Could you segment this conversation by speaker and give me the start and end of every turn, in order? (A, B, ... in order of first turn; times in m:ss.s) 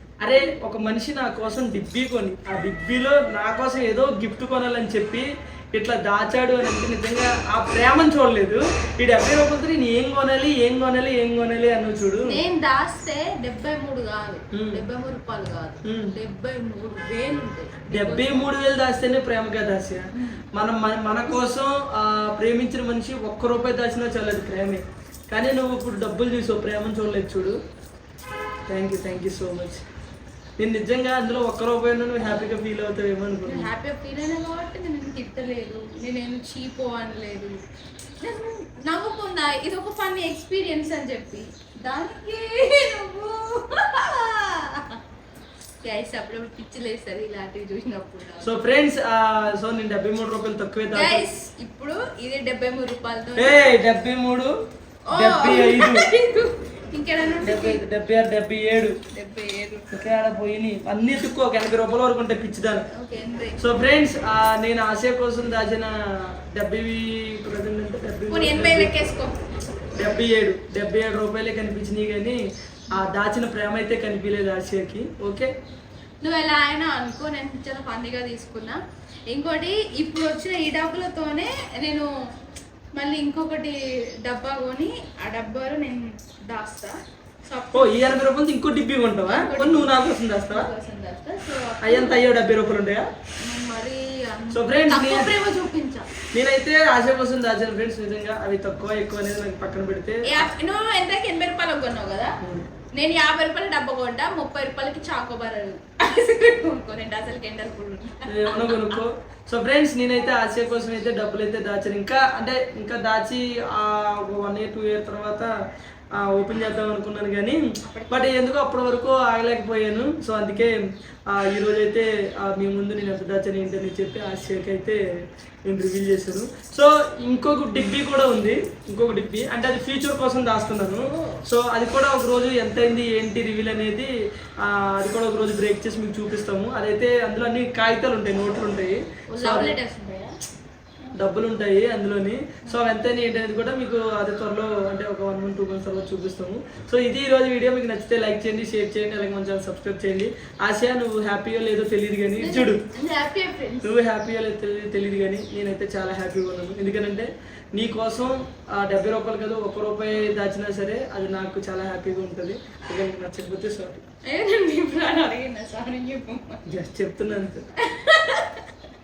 0:00.2-0:12.4 A
0:12.2-0:18.6 B
0:14.5-0:14.8 A
0:15.8-0:16.1 A
0:17.9-0:27.6 A
0:20.2-0:20.4 B
0:28.7-0:29.8 A
0:30.6-0:33.7 A
0:33.4-0:37.6 B
0:38.2-0:45.0 B
0:45.8-0:48.6 B
0:48.4-0:51.2 A
0:50.9-0:53.8 B
0:53.4-0:54.5 A
0:55.1-0:57.8 B
0:55.1-0:56.1 A
0:57.4-0:59.0 A
0:59.0-0:59.9 B
0:59.9-1:02.8 A
1:02.9-1:03.6 B
1:03.6-1:08.9 A
1:08.3-1:09.4 B
1:10.0-1:15.5 A
1:16.2-1:22.1 B
1:22.9-1:26.9 B
1:27.5-1:28.2 B
1:27.7-1:30.7 A
1:29.2-1:32.2 B
1:31.8-1:33.1 A
1:33.4-1:36.1 B
1:34.5-1:35.3 A
1:36.3-1:40.5 A
1:40.2-1:42.4 B
1:42.9-1:49.0 B
1:48.3-1:55.5 A
1:56.2-1:57.6 A
1:57.8-1:58.3 B
1:58.1-2:05.0 A
2:05.6-2:14.1 A
2:11.1-2:11.4 B
2:14.6-2:19.7 A
2:19.3-2:20.3 B
2:21.2-2:32.8 A
2:22.6-2:22.9 B
2:32.4-2:33.9 B
2:33.8-2:44.0 A
2:44.2-2:46.6 B
2:46.6-2:47.6 A
2:47.8-2:48.7 B